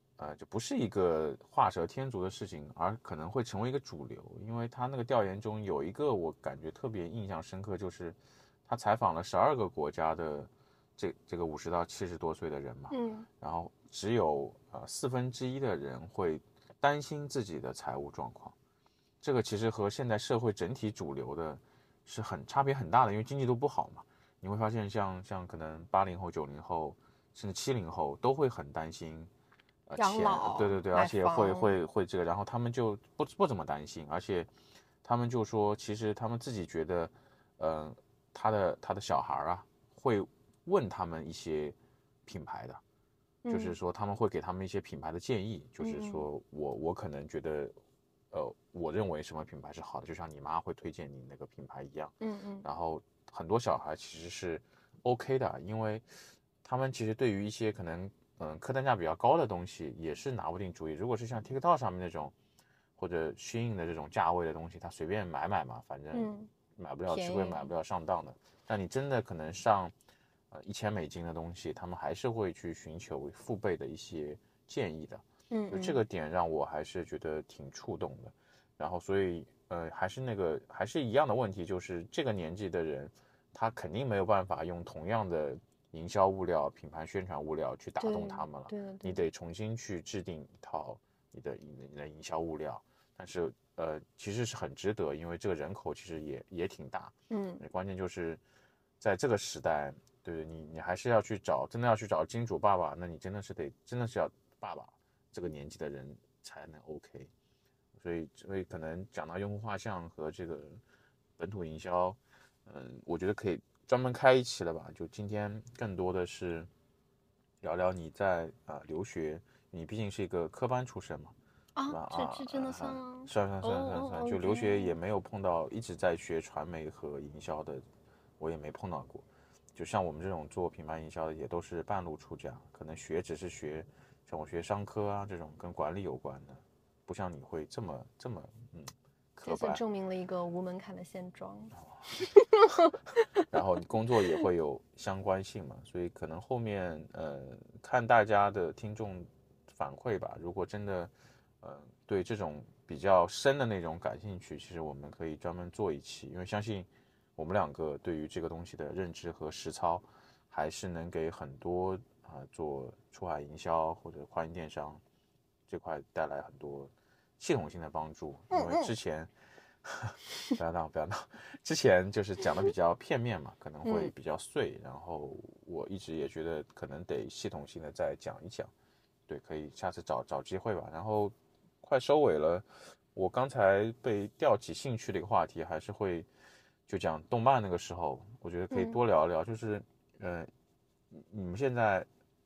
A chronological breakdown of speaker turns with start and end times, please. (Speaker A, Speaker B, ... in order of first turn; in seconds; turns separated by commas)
Speaker A: 0.2-18.5, Speaker B: 12.9-13.3, Speaker A: 19.2-29.3, Speaker A: 29.9-34.5, Speaker B: 30.0-31.7, Speaker A: 35.0-42.8, Speaker B: 43.4-43.8, Speaker A: 43.5-47.8, Speaker B: 45.8-46.2, Speaker A: 48.3-56.1, Speaker B: 52.2-52.6, Speaker A: 56.6-62.3, Speaker A: 63.0-69.9, Speaker B: 66.1-66.5, Speaker B: 67.1-67.7, Speaker A: 70.5-98.4, Speaker B: 75.5-76.0, Speaker B: 88.0-89.2, Speaker B: 97.3-97.6, Speaker A: 99.0-107.3, Speaker A: 108.0-110.8, Speaker A: 111.4-116.7, Speaker A: 117.6-121.3, Speaker B: 121.8-124.9, Speaker A: 121.9-127.8, Speaker A: 128.4-139.8, Speaker B: 139.4-142.9, Speaker A: 143.5-151.1, Speaker A: 151.6-165.0, Speaker A: 165.7-169.3, Speaker B: 168.5-168.9, Speaker A: 169.8-178.7, Speaker B: 173.8-174.1, Speaker A: 179.3-186.3, Speaker A: 186.9-190.5, Speaker B: 188.7-189.0, Speaker A: 191.1-192.1